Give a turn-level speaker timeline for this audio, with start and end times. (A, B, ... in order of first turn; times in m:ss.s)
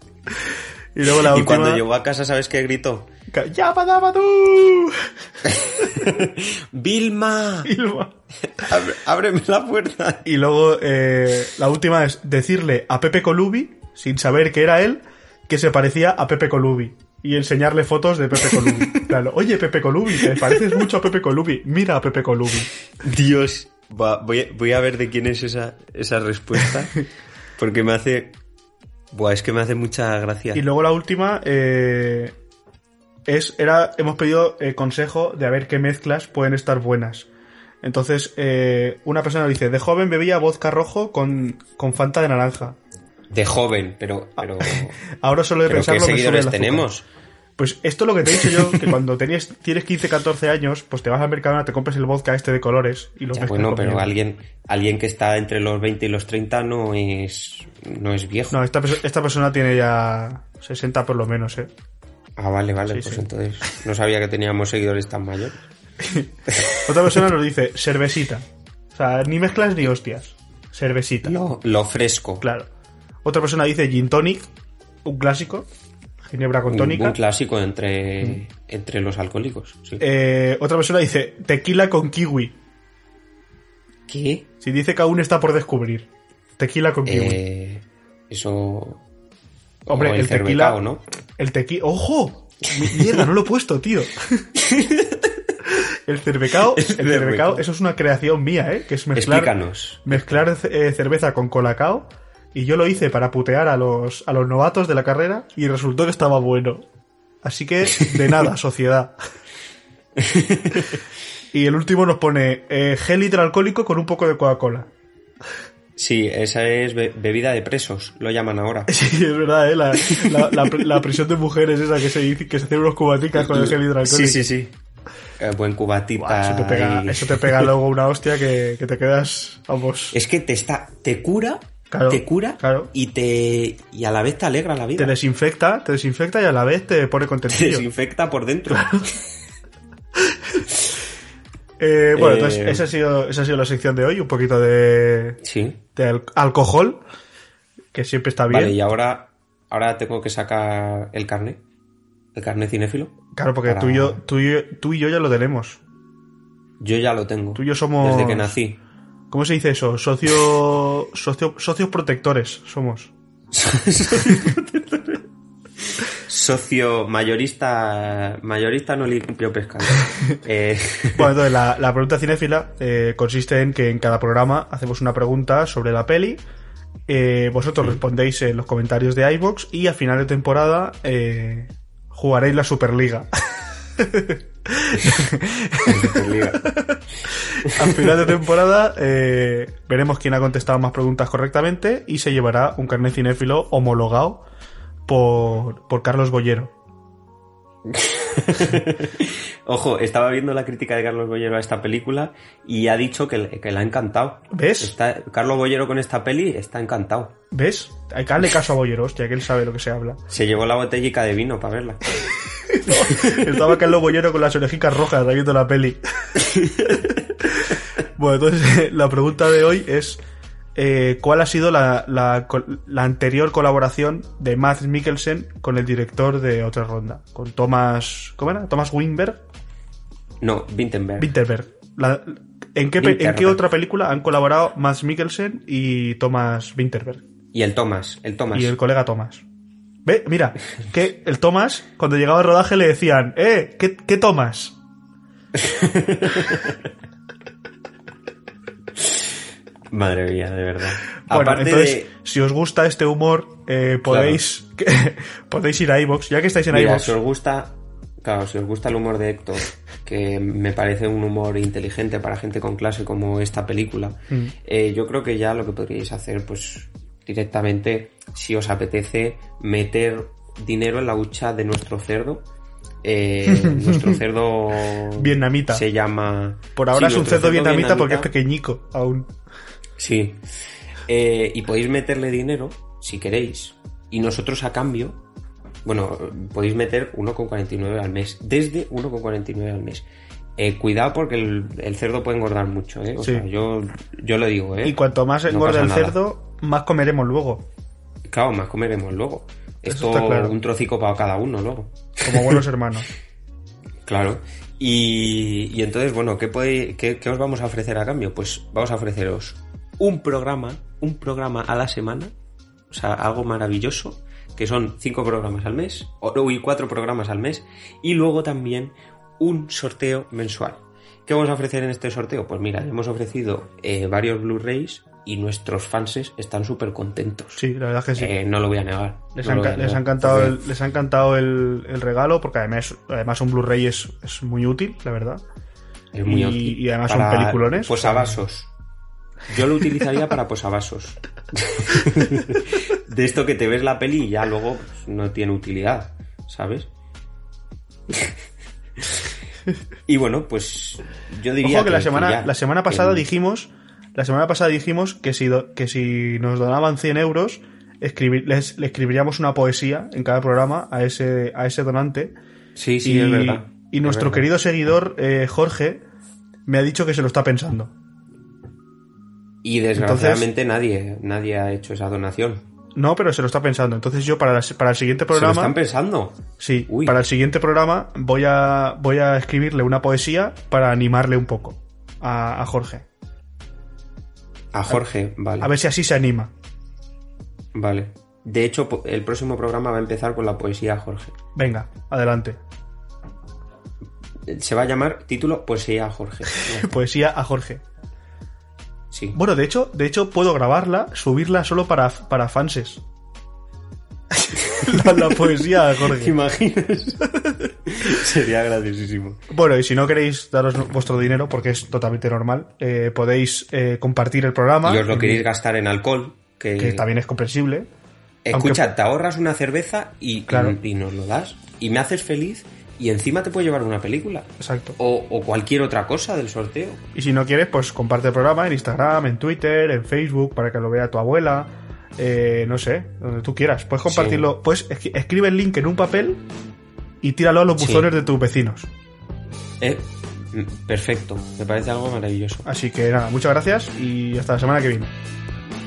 0:00.9-0:01.8 A
0:01.1-0:03.1 B
0:03.3-0:05.1 A
0:05.4-0:07.7 B
0:07.6-0:08.2 A
0:08.4-0:10.3 B
0:10.2-0:22.7 A
0:18.4-0:19.0 B
0:20.3-0:20.6 B
0:23.0-0:26.9 B
0:27.6-0:28.4 B
0:29.1-0:30.6 B
0:30.5-0:32.4 A
0:33.3-0:37.3 A
0:37.8-0:42.8 A
0:43.3-0:45.0 B
0:44.4-0:46.9 A
0:45.6-0:47.1 B
0:47.6-0:54.1 A
0:48.3-0:48.9 B
0:53.3-0:58.6 B
0:58.5-1:01.7 A
1:02.4-1:05.6 B
1:02.9-1:03.7 A
1:06.0-1:11.4 A
1:06.5-1:07.2 B
1:11.2-1:12.4 B
1:12.4-1:12.7 A
1:13.2-1:14.5 A
1:15.0-1:15.7 A
1:16.3-1:17.2 A
1:16.7-1:20.0 B
1:20.0-1:22.6 A
1:24.1-1:24.5 B
1:24.6-1:27.4 A
1:27.0-1:29.0 B
1:29.9-1:30.8 A
1:29.9-1:31.0 B
1:31.4-1:34.5 A
1:34.6-1:35.5 B
1:35.7-1:39.5 A
1:36.6-1:37.7 B
1:39.1-1:40.3 B
1:40.0-1:46.9 A
1:47.4-1:49.2 A
1:50.2-1:51.0 B
1:51.5-1:54.9 A
1:56.0-1:58.9 B
1:58.9-2:04.4 A
2:00.0-2:01.0 B
2:03.4-2:04.8 B
2:05.4-2:07.7 B
2:06.2-2:10.2 A
2:10.1-2:15.2 B
2:11.9-2:12.9 A
2:15.0-2:17.8 A
2:17.5-2:19.3 B
2:21.8-2:25.4 A
2:22.2-2:22.9 B
2:25.4-2:25.8 B
2:26.0-2:27.0 A
2:27.9-2:28.8 A
2:28.5-2:31.6 B
2:32.3-2:34.2 B
2:33.4-2:35.8 A
2:36.8-2:38.8 B
2:37.6-2:38.6 A
2:39.3-2:43.1 A
2:43.5-2:45.2 B
2:45.8-2:51.4 B
2:51.2-2:56.4 A
2:57.1-3:03.3 A
3:04.0-3:14.4 A
3:05.8-3:06.7 B
3:07.7-3:08.3 B
3:15.1-3:16.7 A
3:17.8-3:27.4 B
3:24.5-3:25.0 A
3:27.5-3:30.2 A
3:30.3-3:32.2 B
3:32.7-3:40.2 A
3:32.9-3:33.8 B
3:36.4-3:37.1 B
3:40.8-3:49.4 A
3:50.4-3:51.3 B
3:51.2-3:57.2 A
3:53.0-3:53.6 B
3:57.5-3:58.8 B
3:58.5-3:59.4 A
4:00.1-4:04.8 A
4:05.5-4:06.9 B
4:09.0-4:09.3 B
4:09.9-4:12.1 B
4:11.2-4:17.2 A
4:14.1-4:14.4 B
4:16.7-4:32.5 B
4:33.0-4:38.3 B
4:33.5-4:34.2 A
4:35.0-4:35.8 A
4:36.8-4:39.3 A
4:40.0-4:45.2 B
4:45.8-4:50.1 B
4:50.6-4:56.2 B
4:53.2-4:53.5 A
4:54.8-4:57.7 A
4:58.3-5:02.6 B
4:59.9-5:00.6 A
5:02.2-5:03.1 A
5:04.0-5:12.3 B
5:12.9-5:27.6 B
5:27.6-5:28.3 A
5:28.2-5:30.6 B
5:29.4-5:35.4 A
5:36.1-5:38.7 B
5:36.3-5:38.4 A
5:39.5-5:46.9 B
5:48.1-5:48.4 B
5:50.1-5:53.2 B
5:51.6-6:02.3 A
6:02.8-6:04.5 B
6:03.0-6:06.0 A
6:06.7-6:07.9 A
6:09.6-6:12.7 B
6:10.0-6:10.5 A
6:13.0-6:15.8 A
6:15.3-6:17.2 B
6:16.6-6:23.1 A
6:24.7-6:25.7 B
6:25.6-6:26.5 A
6:27.7-6:31.4 B
6:31.6-6:32.6 A
6:34.4-6:36.9 B
6:36.5-6:37.8 A
6:39.1-6:39.4 B
6:39.3-6:43.0 A
6:44.4-6:46.4 A
6:44.8-6:47.3 B
6:47.9-6:49.4 B
6:49.5-6:55.4 A
6:54.8-6:57.0 B
6:56.8-6:57.9 A
6:58.5-7:07.0 B
6:58.5-6:58.8 A
7:00.5-7:00.8 A
7:04.6-7:05.0 A
7:07.2-7:16.4 A
7:14.1-7:14.5 B
7:17.2-7:18.9 A
7:17.8-7:18.1 B
7:19.8-7:22.6 B
7:22.6-7:25.1 A